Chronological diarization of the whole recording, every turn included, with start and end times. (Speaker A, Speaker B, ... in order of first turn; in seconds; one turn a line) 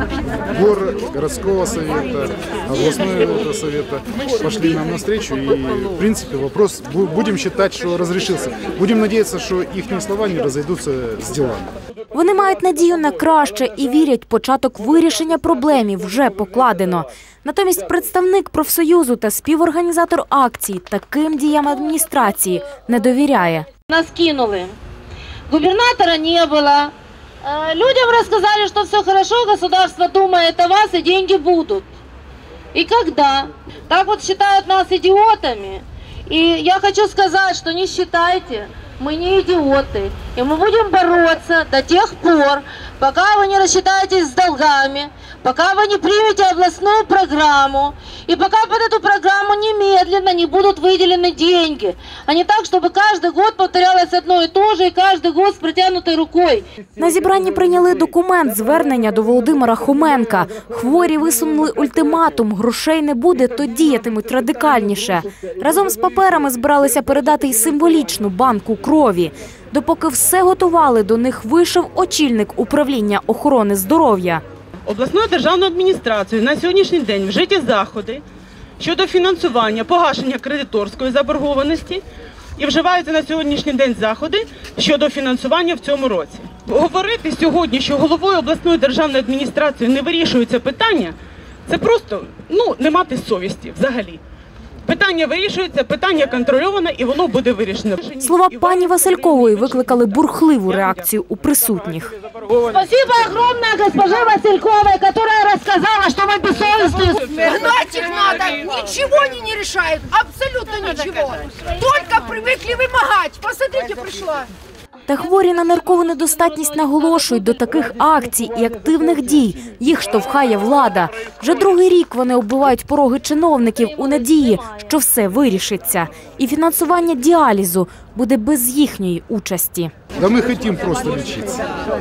Speaker A: 0.3-11.7
Speaker B: 12.1-23.7
Speaker C: 23.9-24.7
Speaker C: 25.5-31.9
Speaker C: 32.7-56.6
Speaker B: 57.0-74.4
Speaker D: 74.9-78.2
Speaker D: 78.8-82.0
Speaker D: 82.6-94.2
Speaker D: 94.8-99.8
Speaker B: 98.2-102.1
Speaker C: 102.5-107.5
Speaker E: 107.4-114.5
Speaker B: 115.1-129.9
Speaker A: 130.2-131.6